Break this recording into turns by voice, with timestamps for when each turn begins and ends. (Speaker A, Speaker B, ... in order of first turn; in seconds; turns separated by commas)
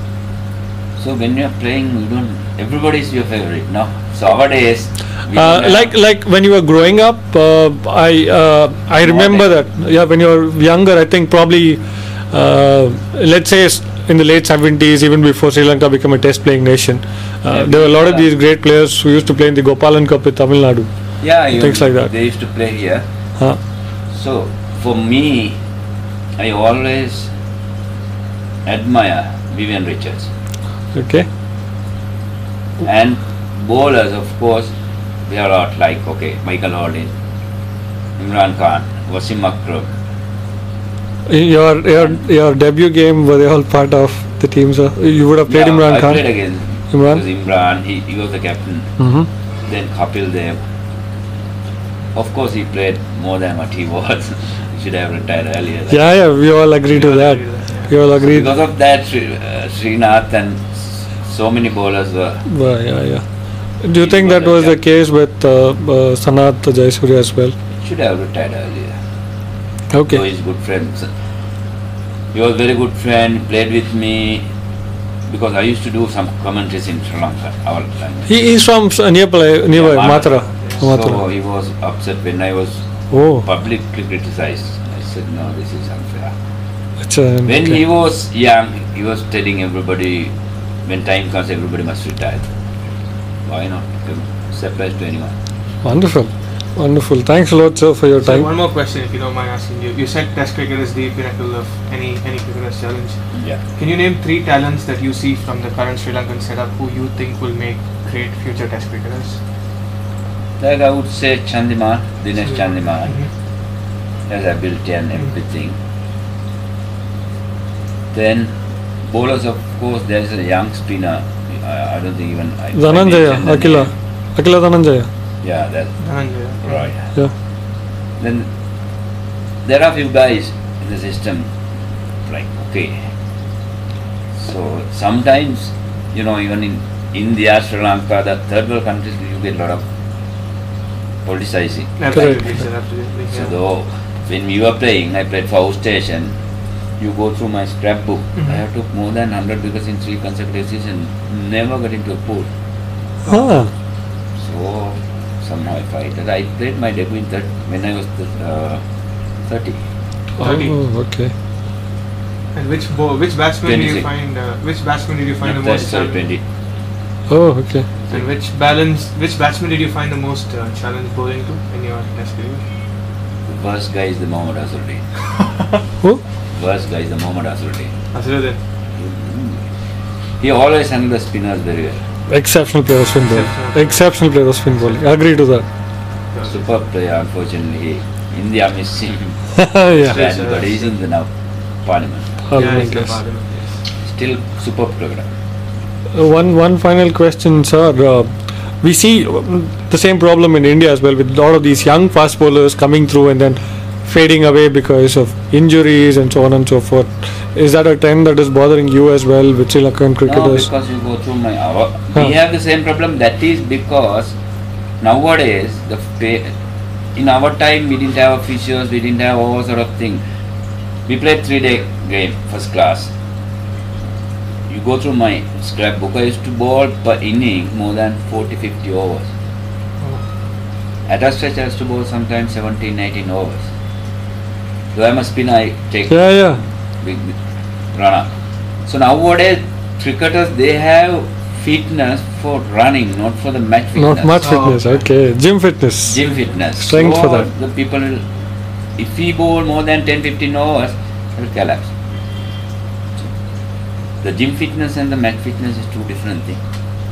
Speaker A: 1.0-5.9, Speaker B: 5.3-22.1, Speaker A: 9.0-9.5, Speaker A: 17.5-18.3, Speaker A: 21.2-23.0, Speaker A: 24.1-25.6, Speaker A: 26.4-27.3, Speaker A: 28.6-30.3, Speaker B: 30.9-31.3, Speaker A: 32.8-34.7, Speaker A: 35.2-37.1, Speaker A: 38.2-39.9, Speaker B: 41.3-47.2, Speaker A: 45.5-49.0, Speaker B: 49.0-49.3, Speaker A: 49.6-50.6, Speaker A: 52.1-56.0, Speaker B: 55.9-58.5, Speaker C: 56.9-57.9, Speaker A: 58.2-62.5, Speaker B: 62.5-67.5, Speaker A: 64.0-64.8, Speaker A: 67.7-69.0, Speaker B: 69.9-70.2, Speaker A: 70.0-71.1, Speaker A: 72.3-74.4, Speaker A: 75.3-78.5, Speaker B: 78.3-81.2, Speaker A: 79.7-86.3, Speaker C: 80.4-80.8, Speaker B: 83.1-83.5, Speaker B: 87.0-87.8, Speaker A: 87.5-90.3, Speaker A: 90.8-92.4, Speaker A: 93.4-95.3, Speaker B: 95.8-98.5, Speaker C: 98.2-109.4, Speaker A: 103.3-103.6, Speaker A: 110.6-113.2, Speaker C: 112.4-113.3, Speaker A: 114.3-115.8, Speaker A: 118.1-123.9, Speaker B: 122.7-125.1, Speaker A: 125.4-126.1, Speaker C: 126.0-126.9, Speaker A: 126.6-127.1, Speaker A: 128.2-128.5, Speaker A: 129.6-131.5, Speaker A: 132.2-133.1, Speaker A: 134.3-139.8, Speaker A: 141.2-142.4, Speaker C: 142.0-143.6, Speaker B: 142.1-142.4, Speaker A: 143.3-146.3, Speaker A: 147.0-152.5, Speaker C: 153.2-153.5, Speaker B: 153.3-153.7, Speaker A: 154.4-158.8, Speaker A: 159.4-159.8, Speaker B: 160.4-161.3, Speaker C: 160.4-160.8, Speaker C: 162.5-166.2, Speaker A: 163.6-164.1, Speaker A: 165.4-166.4, Speaker B: 167.3-167.9, Speaker C: 168.1-172.6, Speaker A: 173.4-175.1, Speaker A: 176.5-177.9, Speaker C: 178.1-178.6, Speaker A: 178.9-179.7, Speaker A: 180.4-182.0, Speaker B: 182.3-185.7, Speaker C: 183.2-184.1, Speaker C: 186.3-186.6, Speaker A: 186.4-192.5, Speaker B: 189.7-190.2, Speaker C: 189.9-190.9, Speaker B: 192.5-193.2, Speaker C: 192.5-193.8, Speaker A: 194.0-195.3, Speaker B: 196.1-210.7, Speaker A: 210.2-214.3, Speaker A: 215.0-216.5, Speaker A: 217.1-220.2, Speaker A: 221.1-223.1, Speaker A: 224.7-229.3, Speaker A: 231.1-233.7, Speaker A: 234.9-237.4, Speaker B: 236.1-236.6, Speaker A: 237.9-238.3, Speaker A: 238.8-244.6, Speaker B: 243.9-247.5, Speaker C: 244.4-245.0, Speaker A: 246.1-248.2, Speaker A: 248.9-251.9, Speaker A: 254.2-256.6